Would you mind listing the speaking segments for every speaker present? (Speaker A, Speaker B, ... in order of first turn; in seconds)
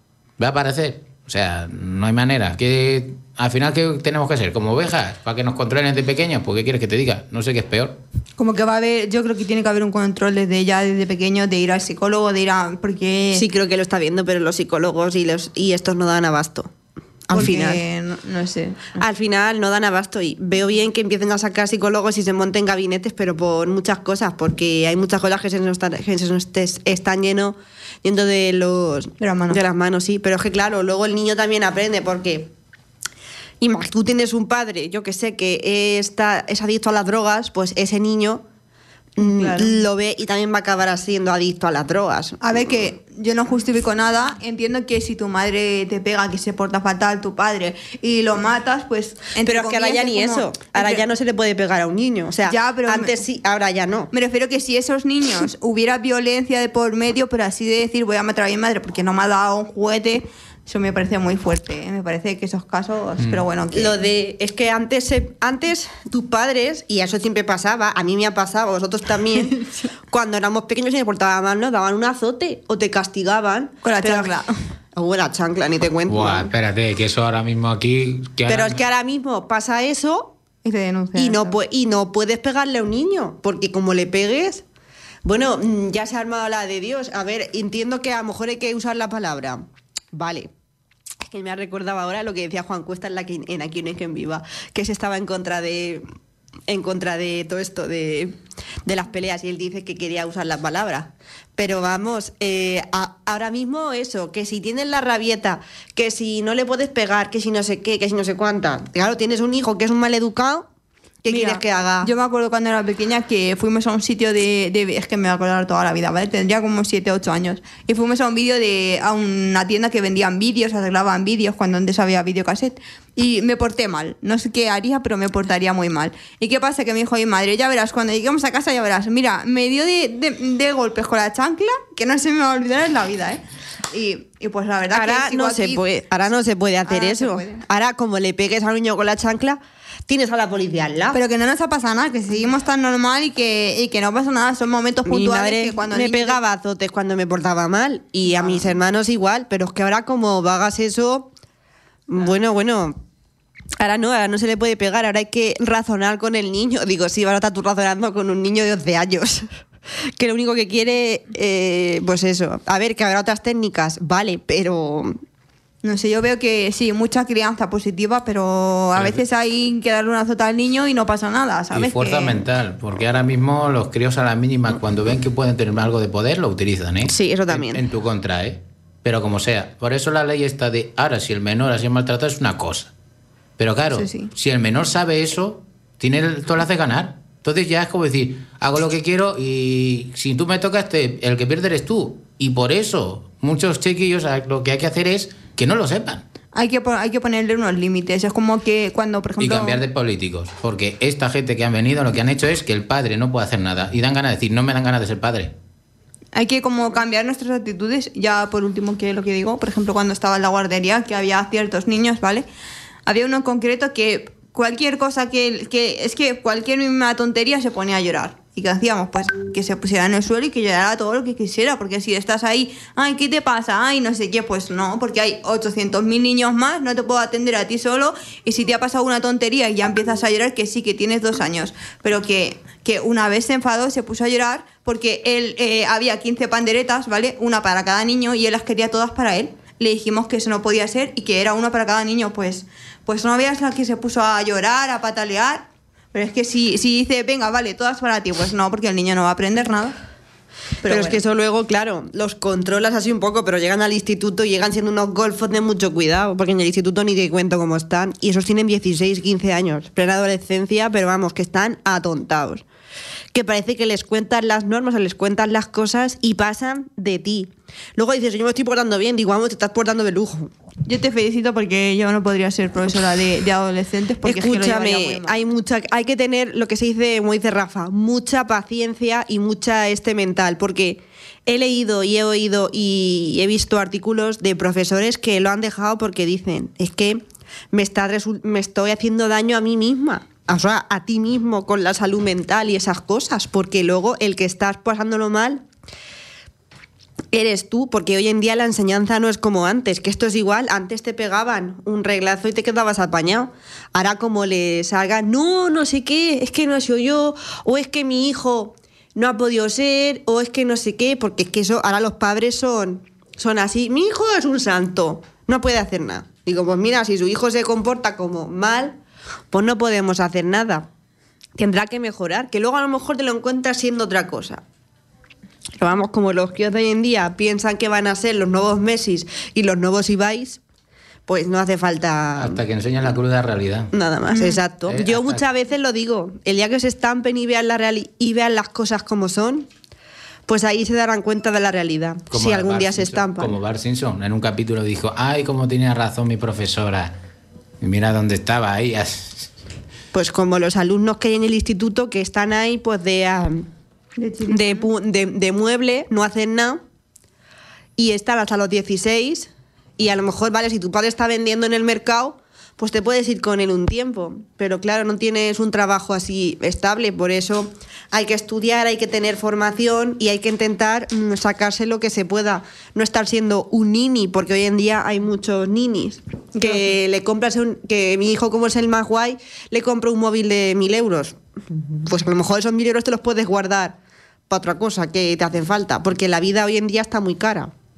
Speaker A: 0.4-8.0, 63.2-63.5, 76.1-78.8, 168.9-169.2, 171.7-182.9, 183.6-196.2, 199.4-205.5, 332.4-333.9, 334.9-335.4, 342.3-347.1, 347.8-349.5
Speaker B: 8.4-13.4, 17.3-19.0, 29.2-29.6, 39.2-39.8, 42.4-51.0, 52.5-53.1, 54.1-64.0, 69.5-69.8, 73.8-74.5, 80.6-81.6, 111.3-135.8, 136.8-137.6, 141.1-146.4, 165.8-172.4, 183.9-184.3, 196.5-199.8, 206.3-212.4, 213.1-249.9, 250.8-251.2, 270.8-275.4, 334.3-334.6, 354.2-354.9, 376.6-376.9
Speaker C: 13.3-16.7, 17.3-17.8, 19.0-32.5, 33.6-38.4, 39.2-42.4, 49.4-54.1, 63.7-74.3, 75.0-76.5, 78.5-80.3, 81.2-84.6, 85.2-90.5, 91.3-96.0, 96.7-110.7, 111.2-112.1, 134.9-141.2, 145.1-151.3, 152.1-153.0, 153.8-159.5, 160.2-165.2, 177.1-177.8, 250.8-262.6, 263.3-270.5, 274.2-295.6, 297.3-319.0, 319.5-320.9, 321.6-324.6, 325.8-330.6, 331.3-332.6, 333.9-339.7, 340.5-343.6, 350.1-353.7, 354.4-356.8, 358.0-381.4, 382.0-384.0, 384.5-387.7